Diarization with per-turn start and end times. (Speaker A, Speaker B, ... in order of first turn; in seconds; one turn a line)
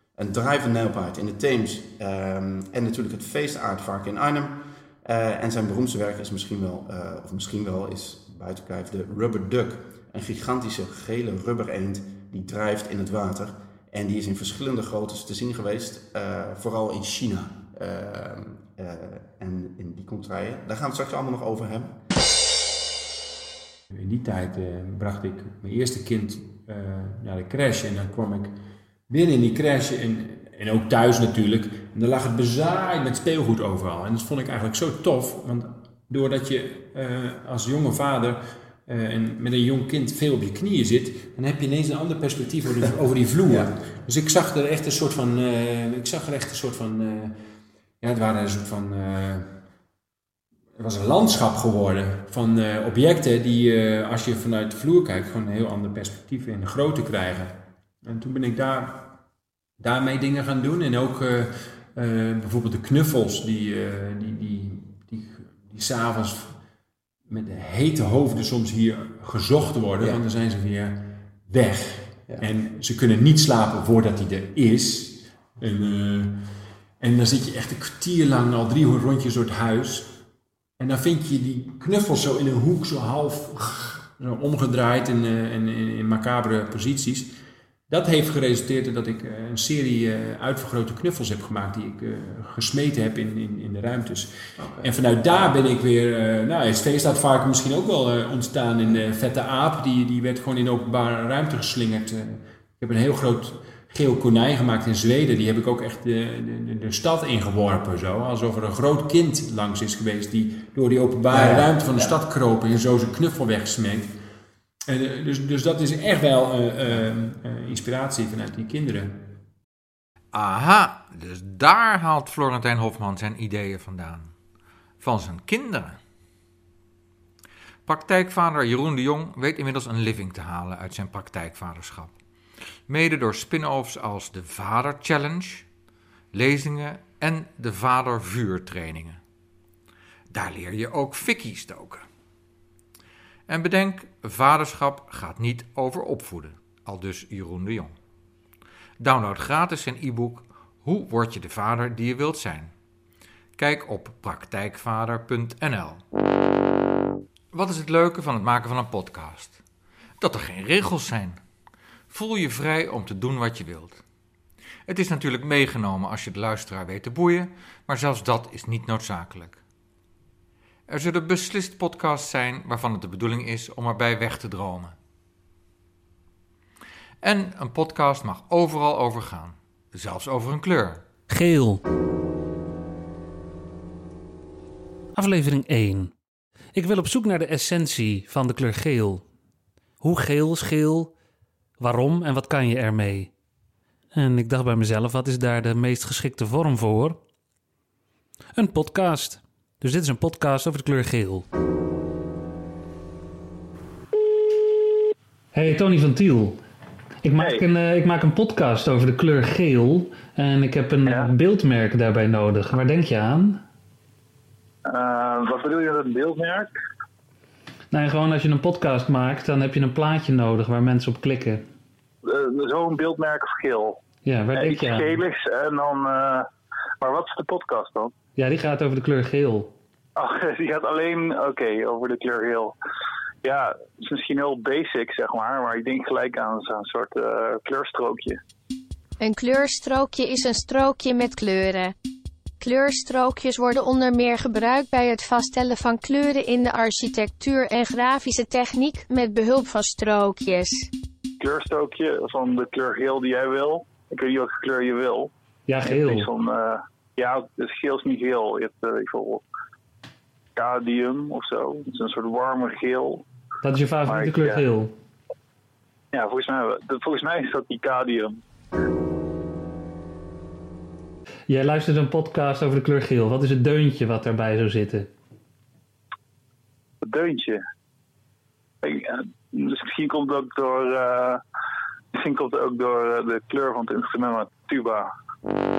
Speaker A: 0.2-22.0
Speaker B: 23.9-28.6
Speaker B: 29.1-47.4
Speaker B: 48.0-49.6
Speaker B: 50.8-59.2
Speaker B: 59.8-66.6
Speaker B: 67.3-76.4
Speaker B: 77.0-80.2
Speaker B: 80.8-87.3
Speaker B: 87.9-114.2
Speaker B: 114.9-119.4
Speaker C: 120.3-124.3
Speaker C: 125.0-126.0
Speaker C: 127.9-132.2
Speaker C: 132.9-135.7
Speaker C: 136.3-139.2
Speaker C: 140.3-142.1
Speaker C: 143.5-147.9
Speaker C: 149.0-152.7
Speaker C: 153.6-156.0
Speaker C: 157.5-159.6
Speaker C: 160.2-161.4
Speaker C: 162.1-164.0
Speaker C: 164.9-169.6
Speaker C: 170.9-174.9
Speaker C: 177.2-181.0
Speaker D: 181.3-181.8
Speaker D: 185.2-186.1
Speaker D: 186.8-189.2
Speaker D: 190.0-191.1
Speaker D: 191.8-193.3
Speaker D: 194.2-197.2
Speaker D: 198.6-201.4
Speaker D: 205.5-206.6
Speaker D: 207.2-213.6
Speaker E: 207.4-207.7
Speaker E: 211.0-211.3
Speaker E: 214.9-216.7
Speaker D: 217.9-221.6
Speaker E: 222.3-224.0
Speaker D: 224.2-225.1
Speaker E: 224.5-226.4
Speaker E: 227.0-228.1
Speaker D: 228.4-229.7
Speaker E: 230.2-232.7
Speaker E: 233.4-238.4
Speaker F: 239.2-241.9
Speaker F: 242.6-250.9
Speaker E: 251.4-255.3
Speaker D: 255.7-256.3
Speaker E: 255.8-259.4
Speaker E: 260.6-263.2
Speaker D: 263.6-264.9
Speaker E: 264.1-264.6
Speaker E: 266.1-268.4
Speaker D: 271.5-275.1
Speaker E: 277.0-277.6
Speaker E: 278.8-281.4
Speaker E: 282.2-285.1